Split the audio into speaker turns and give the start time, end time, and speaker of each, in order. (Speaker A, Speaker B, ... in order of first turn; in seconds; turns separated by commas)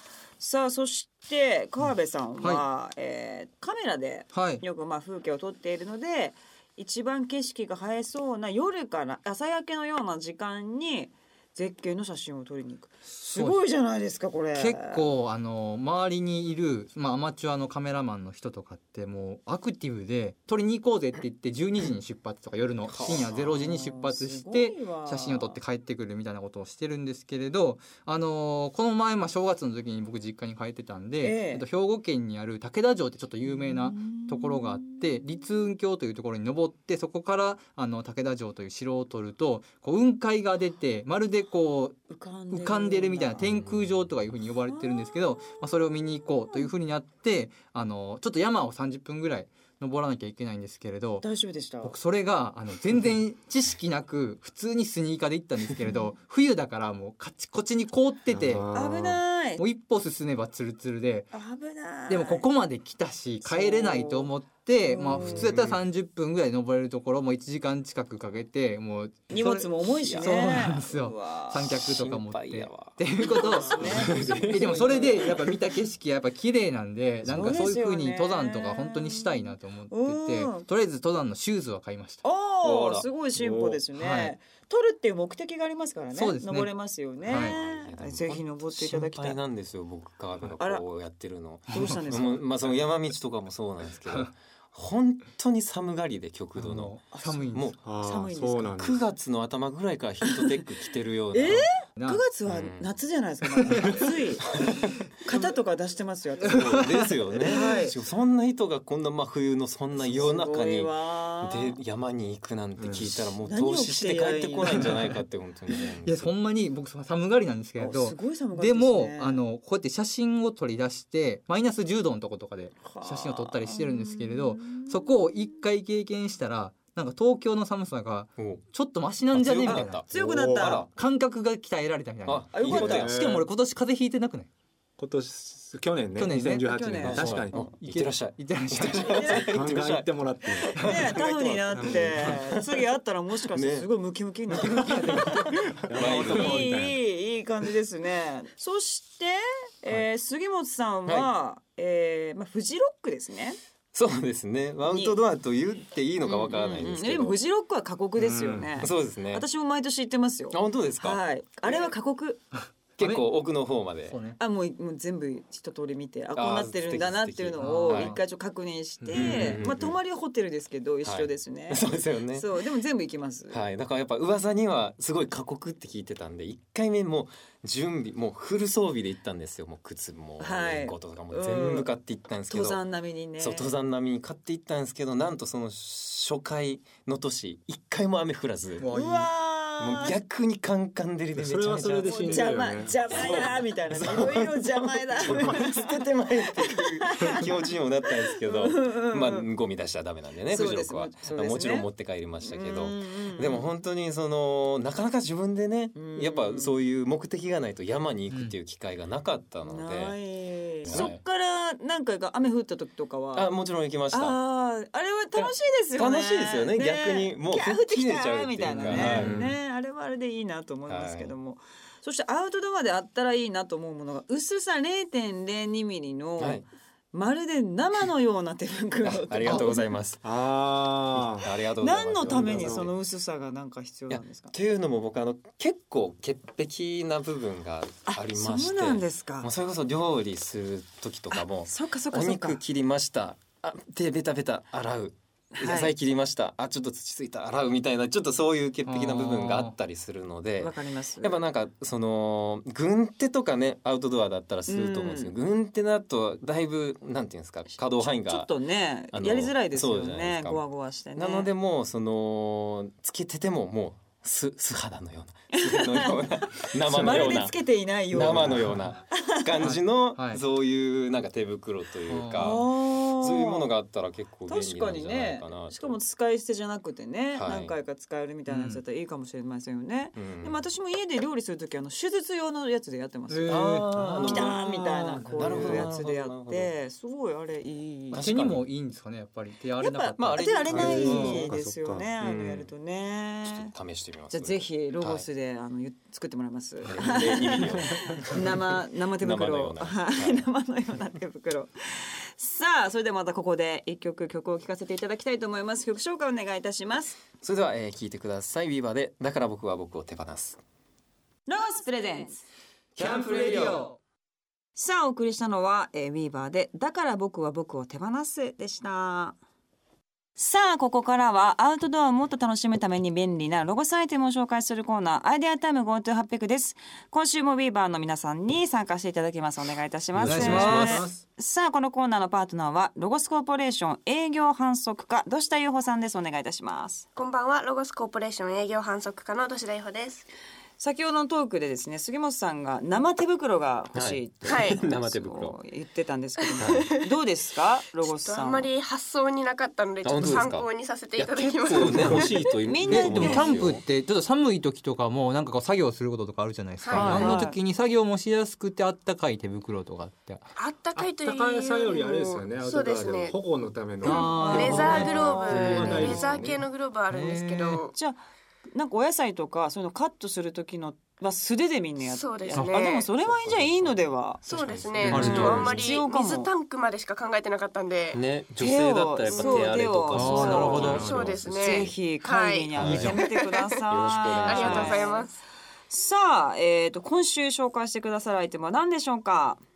Speaker A: 0.4-15.1, Speaker B: 4.3-4.6, Speaker B: 13.2-13.6, Speaker B: 14.5-42.0, Speaker C: 22.9-23.4, Speaker A: 23.3-25.6, Speaker A: 31.2-31.6, Speaker A: 33.4-35.5, Speaker A: 42.1-43.5, Speaker B: 42.5-51.2, Speaker C: 43.5-43.9, Speaker A: 44.7-45.8, Speaker A: 46.4-46.7, Speaker A: 51.2-52.0, Speaker B: 51.8-58.7, Speaker D: 58.3-59.2, Speaker A: 58.7-59.6, Speaker B: 59.6-61.3, Speaker A: 61.3-62.5, Speaker B: 62.1-82.2, Speaker A: 63.4-65.5, Speaker C: 65.1-65.8, Speaker A: 69.3-71.7, Speaker C: 70.0-70.6, Speaker C: 71.7-74.9, Speaker A: 73.2-75.3, Speaker D: 74.0-74.7, Speaker A: 77.3-80.7, Speaker A: 82.2-89.4, Speaker C: 82.6-83.1, Speaker D: 83.3-83.8, Speaker B: 83.9-84.3, Speaker B: 86.1-86.7, Speaker C: 87.2-97.8, Speaker B: 87.2-87.5, Speaker A: 90.6-90.8, Speaker A: 91.7-92.5, Speaker B: 96.5-97.7, Speaker A: 97.1-98.8, Speaker D: 97.8-99.0, Speaker C: 98.8-101.7, Speaker A: 100.2-100.6, Speaker A: 101.3-104.5, Speaker B: 102.0-102.2, Speaker C: 102.5-102.9, Speaker B: 103.7-104.0, Speaker C: 104.5-105.0, Speaker A: 105.2-108.0, Speaker B: 106.4-107.7, Speaker C: 106.5-116.3, Speaker A: 109.9-111.8, Speaker D: 112.8-113.3, Speaker A: 113.4-115.0, Speaker B: 116.0-130.0, Speaker A: 117.8-119.4, Speaker A: 122.8-125.6, Speaker C: 128.4-128.6, Speaker C: 129.3-130.9, Speaker A: 129.7-130.9, Speaker D: 130.1-130.8, Speaker B: 130.9-134.5, Speaker C: 132.2-133.2, Speaker A: 132.5-133.1, Speaker D: 132.7-133.4, Speaker D: 135.0-137.7, Speaker B: 136.2-136.7, Speaker A: 136.6-137.4, Speaker C: 137.0-142.8, Speaker B: 137.5-139.4, Speaker A: 139.0-139.6, Speaker D: 139.5-142.4, Speaker A: 140.6-153.6, Speaker C: 143.5-143.9, Speaker B: 144.6-146.6, Speaker C: 144.8-146.7, Speaker D: 145.7-147.0, Speaker C: 153.9-157.4, Speaker A: 154.8-155.2, Speaker A: 156.2-162.4, Speaker D: 158.2-158.9, Speaker C: 158.8-159.5, Speaker C: 160.5-161.2, Speaker C: 163.0-164.2, Speaker B: 163.0-163.3, Speaker B: 164.1-164.4, Speaker A: 164.4-173.6, Speaker C: 166.4-168.1, Speaker B: 167.6-168.2, Speaker D: 169.0-169.6, Speaker C: 169.1-170.0, Speaker C: 171.0-172.5, Speaker C: 173.5-182.8, Speaker A: 180.4-181.9, Speaker A: 182.5-183.7, Speaker C: 183.4-188.9, Speaker B: 188.8-189.3, Speaker A: 188.9-190.2, Speaker C: 189.8-192.6, Speaker D: 191.3-193.5, Speaker A: 192.0-199.5, Speaker C: 193.1-210.2, Speaker D: 195.2-195.6, Speaker A: 200.5-201.9, Speaker A: 202.4-203.7, Speaker A: 205.9-206.8, Speaker A: 209.7-213.5, Speaker C: 210.8-211.2, Speaker C: 213.3-214.4, Speaker A: 214.1-229.9, Speaker C: 215.3-219.4, Speaker D: 218.8-219.6, Speaker B: 218.8-219.3, Speaker C: 220.9-221.3, Speaker C: 226.4-226.7, Speaker C: 229.0-230.2, Speaker D: 230.2-231.5, Speaker C: 231.4-232.9, Speaker A: 231.8-234.5, Speaker D: 232.2-232.9, Speaker C: 234.1-258.5, Speaker A: 238.1-239.5, Speaker A: 241.3-242.6, Speaker A: 245.5-245.9, Speaker B: 248.8-249.8, Speaker A: 250.6-251.4, Speaker A: 254.7-255.3, Speaker A: 257.7-261.5, Speaker C: 259.1-260.6, Speaker C: 261.1-267.6, Speaker A: 265.5-269.7, Speaker C: 268.1-276.0, Speaker D: 268.2-268.7, Speaker B: 268.5-268.7, Speaker B: 269.6-270.4, Speaker B: 272.1-272.5, Speaker A: 272.4-273.7, Speaker A: 274.5-288.2, Speaker C: 277.3-277.8, Speaker B: 278.5-278.8, Speaker C: 280.2-280.6, Speaker B: 283.3-284.6, Speaker C: 283.5-286.7, Speaker B: 285.2-285.9, Speaker C: 288.1-288.7, Speaker B: 288.2-291.4, Speaker A: 289.8-293.7, Speaker C: 290.2-291.3, Speaker D: 290.7-292.2, Speaker C: 292.2-292.7, Speaker C: 293.4-295.2, Speaker A: 294.3-307.2, Speaker C: 296.8-298.6, Speaker C: 299.2-300.5, Speaker C: 307.4-310.6, Speaker A: 311.5-312.4, Speaker B: 313.0-314.0, Speaker C: 313.0-313.8, Speaker A: 314.8-319.4, Speaker A: 320.4-337.1, Speaker C: 330.1-331.1, Speaker B: 330.2-331.1, Speaker D: 330.4-331.1, Speaker E: 337.2-340.2, Speaker A: 340.8-348.7, Speaker C: 343.9-345.6, Speaker E: 344.5-344.8, Speaker E: 346.4-347.1, Speaker C: 346.6-346.9, Speaker E: 348.0-352.5, Speaker C: 350.0-353.8, Speaker A: 352.6-353.6, Speaker B: 352.9-360.5, Speaker E: 356.8-357.5, Speaker C: 356.9-357.3, Speaker A: 356.9-357.5, Speaker E: 360.6-363.4, Speaker D: 360.9-366.6, Speaker B: 364.0-366.1, Speaker E: 364.0-367.9, Speaker A: 364.0-365.3, Speaker C: 364.8-366.5, Speaker B: 367.1-367.9, Speaker A: 367.9-368.2, Speaker A: 368.7-374.4, Speaker E: 372.1-373.1, Speaker B: 372.5-372.8, Speaker C: 373.2-375.9, Speaker E: 374.5-378.2, Speaker A: 375.1-376.5, Speaker B: 375.1-375.8, Speaker C: 378.1-381.9, Speaker A: 378.6-381.0, Speaker E: 379.2-383.7, Speaker B: 380.1-381.2, Speaker A: 381.6-385.3, Speaker C: 382.8-383.2, Speaker B: 382.8-383.2, Speaker C: 383.9-385.1, Speaker E: 384.3-385.3, Speaker A: 385.9-389.6